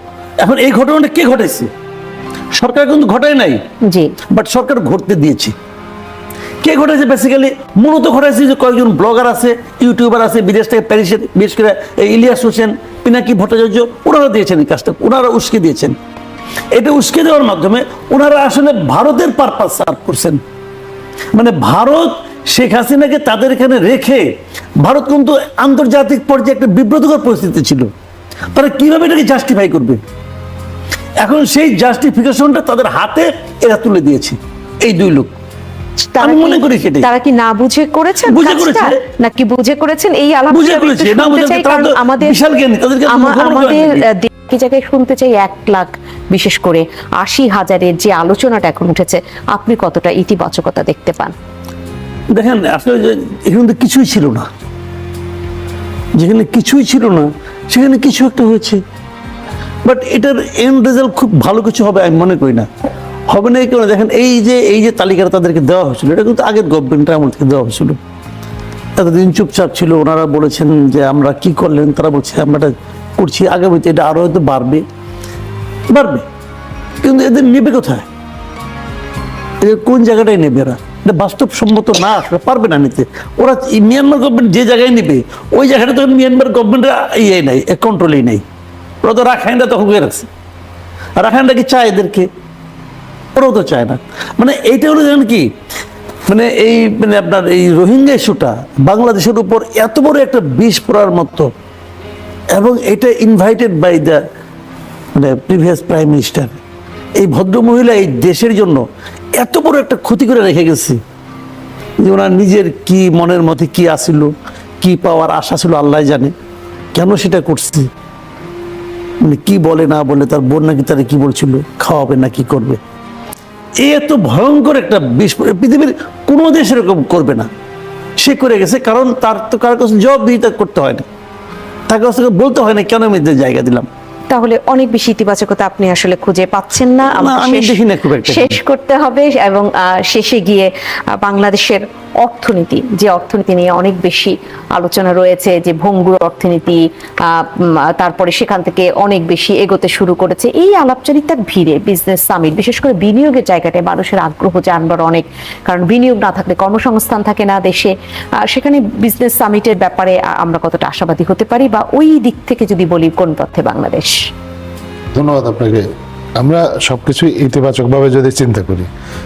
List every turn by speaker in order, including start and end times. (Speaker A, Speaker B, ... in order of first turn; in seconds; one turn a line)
Speaker A: 0.4-1.7
Speaker A: 2.5-3.6
Speaker B: 3.8-4.1
Speaker A: 4.3-5.5
Speaker A: 6.6-15.9
Speaker A: 16.7-20.4
Speaker A: 21.3-24.3
Speaker A: 24.8-27.9
Speaker A: 28.5-30.0
Speaker A: 31.2-35.3
Speaker B: 36.1-42.4
Speaker A: 36.2-37.1
Speaker A: 38.3-39.0
Speaker A: 40.5-44.0
Speaker B: 43.1-51.3
Speaker A: 52.3-54.5
Speaker A: 56.1-58.8
Speaker A: 59.8-62.7
Speaker A: 63.3-68.0
Speaker A: 69.0-74.8
Speaker A: 75.9-76.2
Speaker A: 77.0-78.1
Speaker A: 79.6-88.4
Speaker A: 89.0-90.3
Speaker A: 91.2-92.3
Speaker A: 93.3-95.5
Speaker A: 96.3-101.5
Speaker A: 102.5-104.2
Speaker A: 105.1-106.5
Speaker A: 107.2-108.8
Speaker A: 109.4-111.0
Speaker A: 112.0-116.3
Speaker A: 116.9-117.9
Speaker A: 119.2-122.8
Speaker A: 123.8-127.5
Speaker A: 128.2-131.1
Speaker A: 131.9-133.9
Speaker B: 134.3-157.9
Speaker A: 137.0-138.6
Speaker B: 158.4-164.2
Speaker C: 165.1-165.8
Speaker C: 166.4-168.9